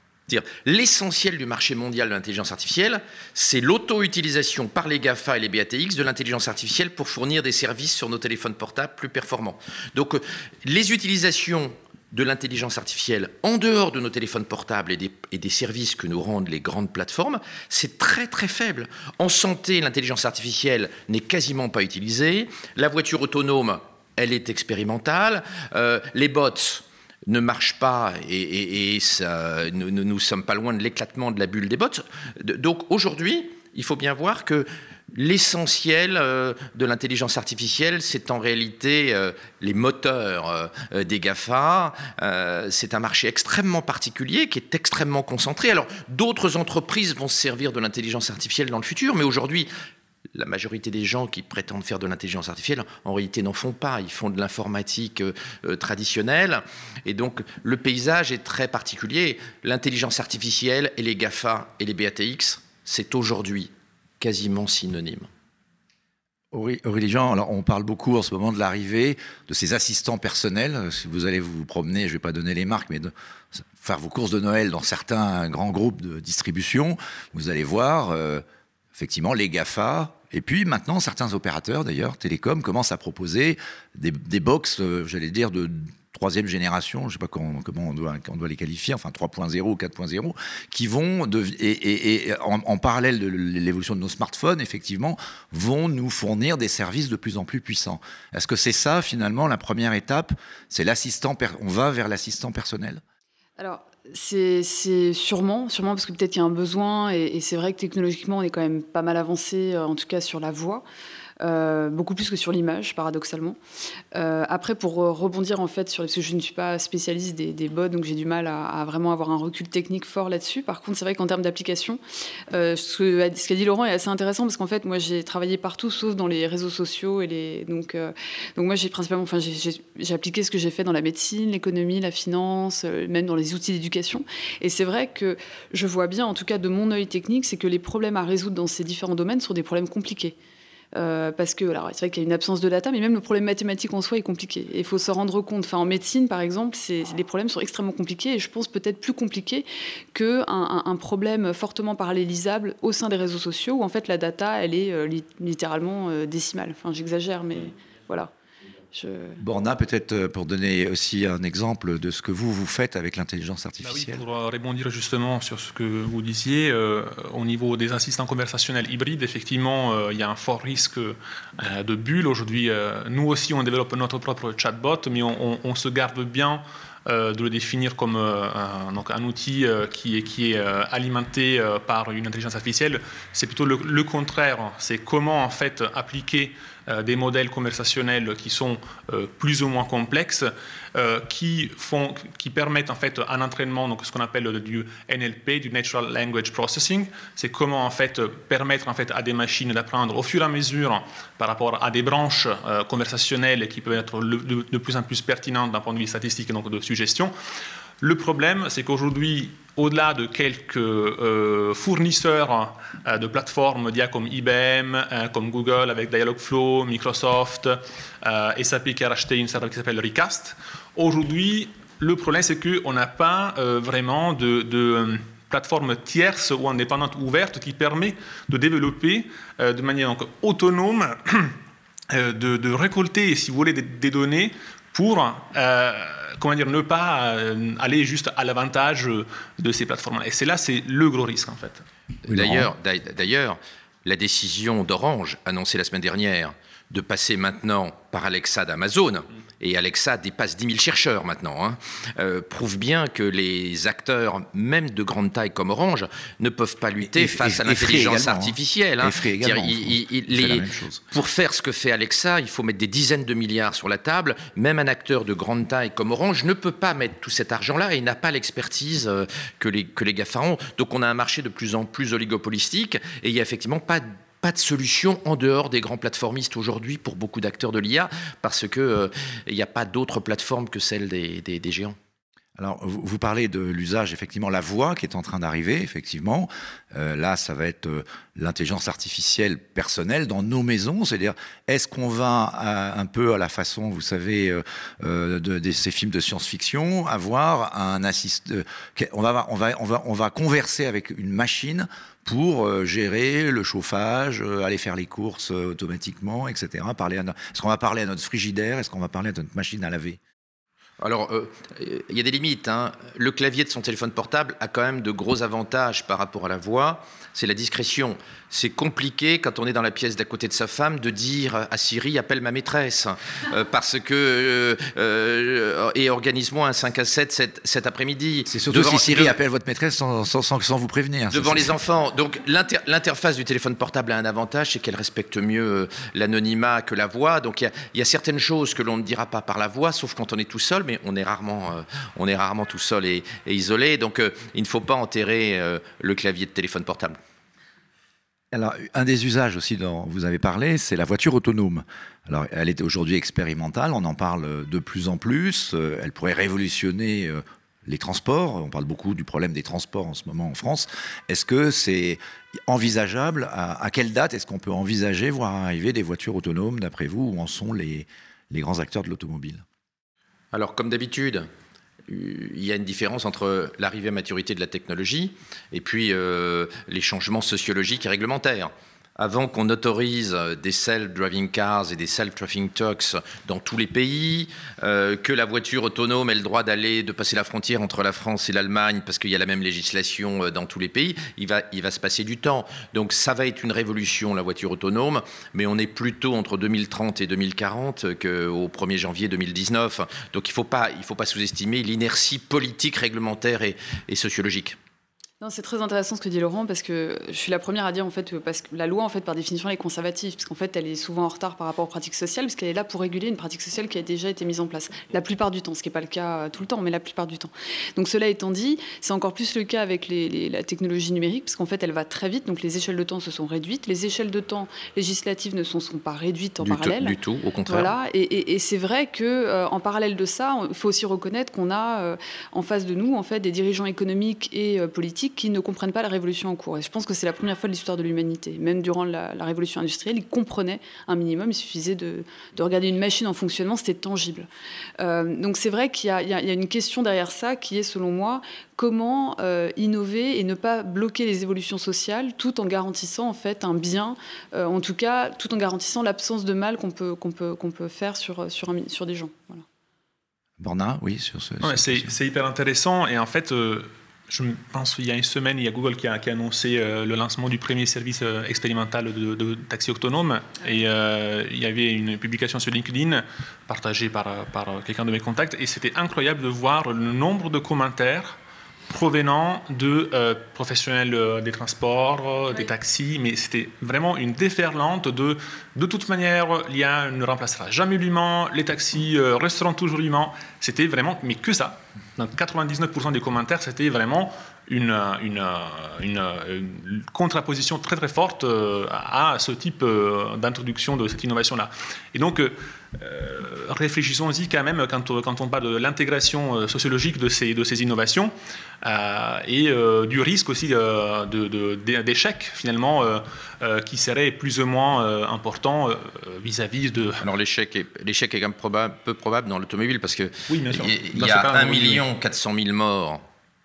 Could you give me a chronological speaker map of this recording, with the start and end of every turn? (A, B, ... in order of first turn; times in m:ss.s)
0:00.3-0:49.7 A
0:50.4-1:05.3 A
1:06.5-1:18.4 B
1:19.0-1:43.0 B
1:43.6-1:50.8 C
1:51.4-1:53.6 C
1:54.2-2:02.0 C
2:02.5-2:20.4 C
2:21.0-2:38.3 C
2:38.9-2:39.4 C
2:39.4-2:44.2 B
2:43.8-3:27.3 D
3:28.0-3:51.6 D
3:52.1-4:01.8 D
4:02.3-4:42.0 A
4:02.3-4:02.7 B
4:17.0-4:21.0 B
4:42.6-5:10.2 B
5:11.0-5:29.3 A
5:28.5-5:31.7 B
5:31.3-5:47.2 A
5:48.5-6:09.6 B
6:10.5-6:11.5 A
6:12.1-6:44.8 A
6:45.4-7:07.1 C
7:06.6-7:07.9 A
7:07.7-7:24.5 C
7:25.0-7:39.6 C
7:40.6-7:42.2 B
7:41.6-7:58.4 D
7:58.9-8:37.2 D
8:37.2-8:43.2 A
8:40.5-8:42.0 D